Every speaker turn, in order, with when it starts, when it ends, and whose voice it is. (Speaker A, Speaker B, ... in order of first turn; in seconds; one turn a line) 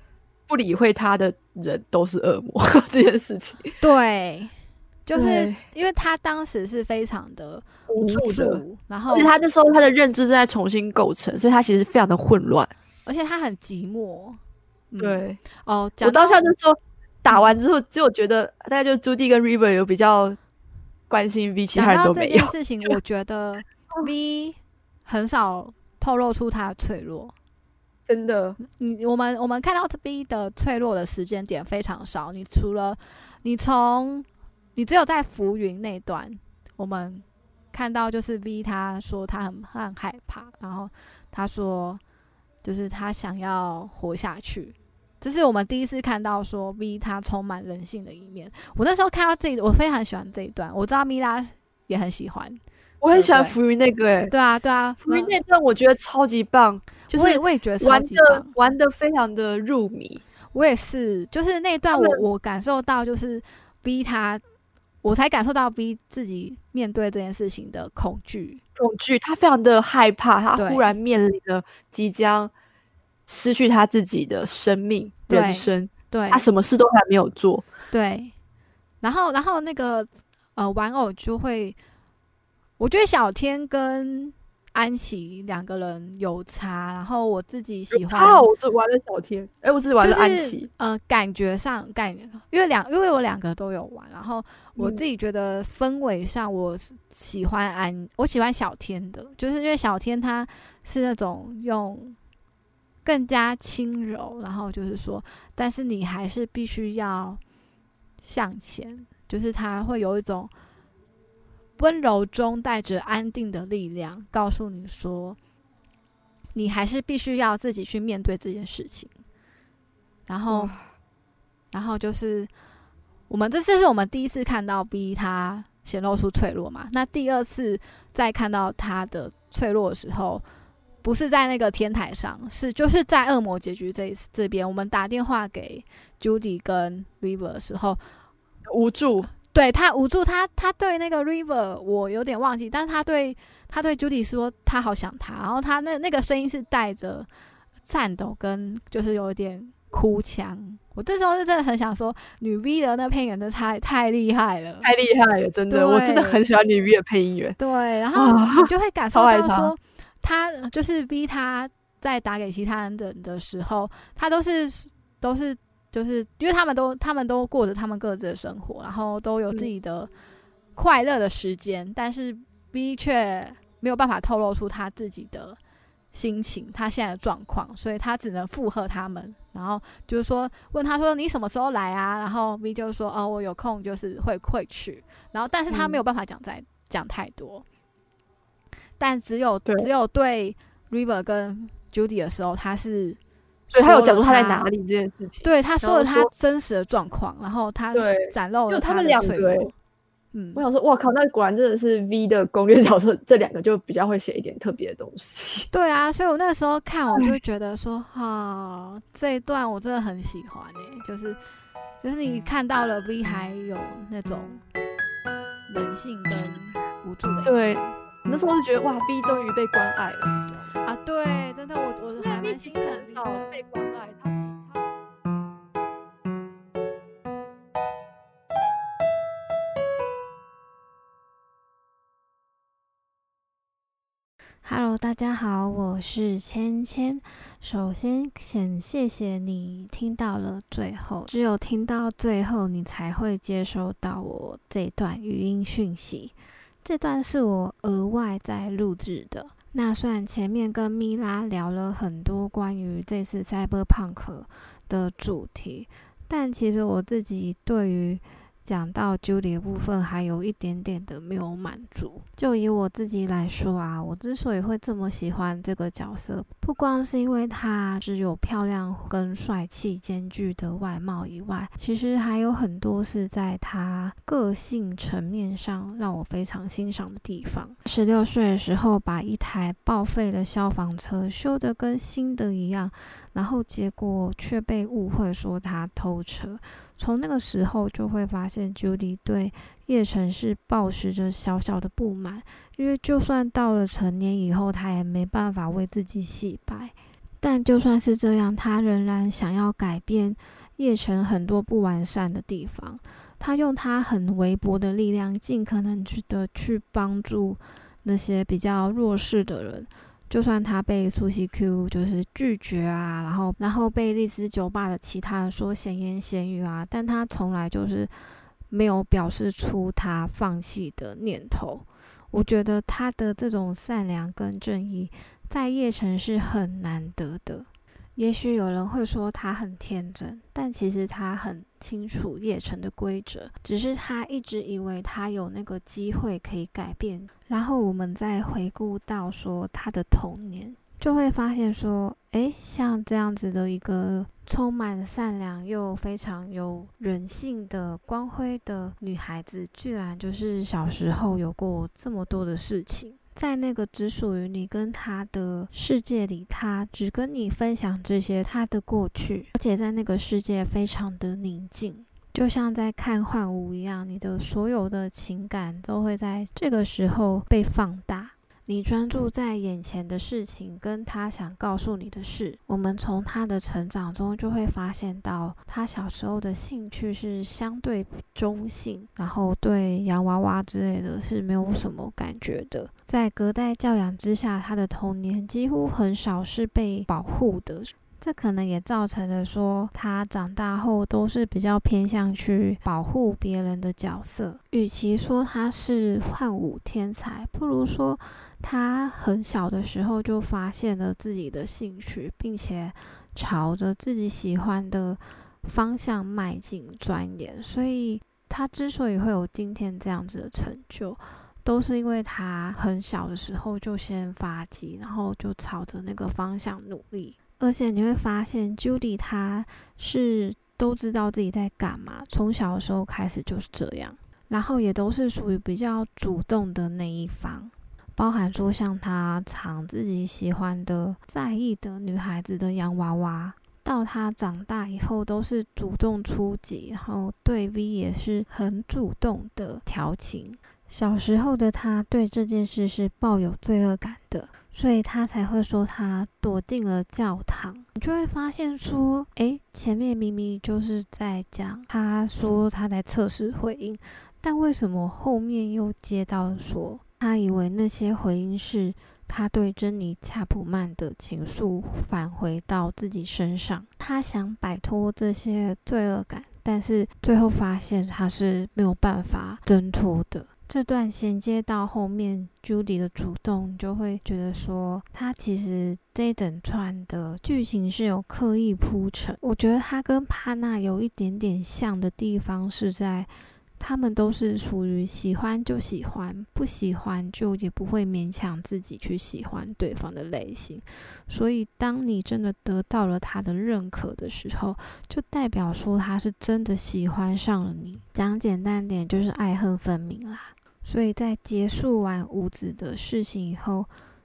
Speaker A: 0.5-3.8
Speaker B: 3.8-4.5
Speaker B: 5.0-9.3
Speaker A: 5.1-5.6
Speaker A: 7.9-12.7
Speaker B: 13.1-14.4
Speaker B: 14.9-16.4
Speaker A: 15.0-15.4
Speaker A: 16.0-20.4
Speaker A: 21.1-22.9
Speaker B: 21.7-27.3
Speaker A: 28.1-28.6
Speaker B: 28.6-42.0
Speaker B: 42.6-52.6
Speaker A: 53.0-54.3
Speaker B: 53.1-53.5
Speaker B: 54.3-55.3
Speaker A: 55.0-60.2
Speaker B: 57.1-58.5
Speaker B: 60.5-64.4
Speaker A: 61.9-62.2
Speaker B: 65.0-68.6
Speaker A: 68.8-72.5
Speaker B: 70.5-70.9
Speaker A: 73.3-77.7
Speaker B: 75.3-76.5
Speaker B: 77.9-78.3
Speaker B: 79.0-81.8
Speaker B: 82.8-88.5
Speaker A: 87.9-90.7
Speaker B: 90.0-102.2
Speaker B: 103.0-107.4
Speaker B: 108.2-110.5
Speaker B: 111.8-115.4
Speaker B: 116.5-119.2
Speaker B: 120.3-120.7
Speaker A: 120.5-120.8
Speaker B: 121.7-122.5
Speaker B: 123.3-130.4
Speaker B: 131.0-138.0
Speaker A: 138.7-139.3
Speaker B: 139.5-147.3
Speaker B: 147.8-154.9
Speaker A: 154.8-157.6
Speaker B: 155.7-156.4
Speaker B: 157.6-170.1
Speaker A: 158.1-159.7
Speaker B: 170.8-175.6
Speaker B: 176.1-187.6
Speaker A: 185.7-186.0
Speaker B: 189.0-193.2
Speaker B: 193.7-194.7
Speaker A: 193.7-196.3
Speaker B: 195.4-199.7
Speaker A: 197.9-199.7
Speaker B: 200.3-200.6
Speaker A: 200.6-205.7
Speaker B: 205.7-211.4
Speaker B: 212.0-214.6
Speaker B: 215.7-217.9
Speaker A: 216.3-216.6
Speaker A: 217.4-220.7
Speaker B: 220.8-223.6
Speaker A: 222.2-224.8
Speaker C: 234.6-318.1
Speaker C: 318.7-503.9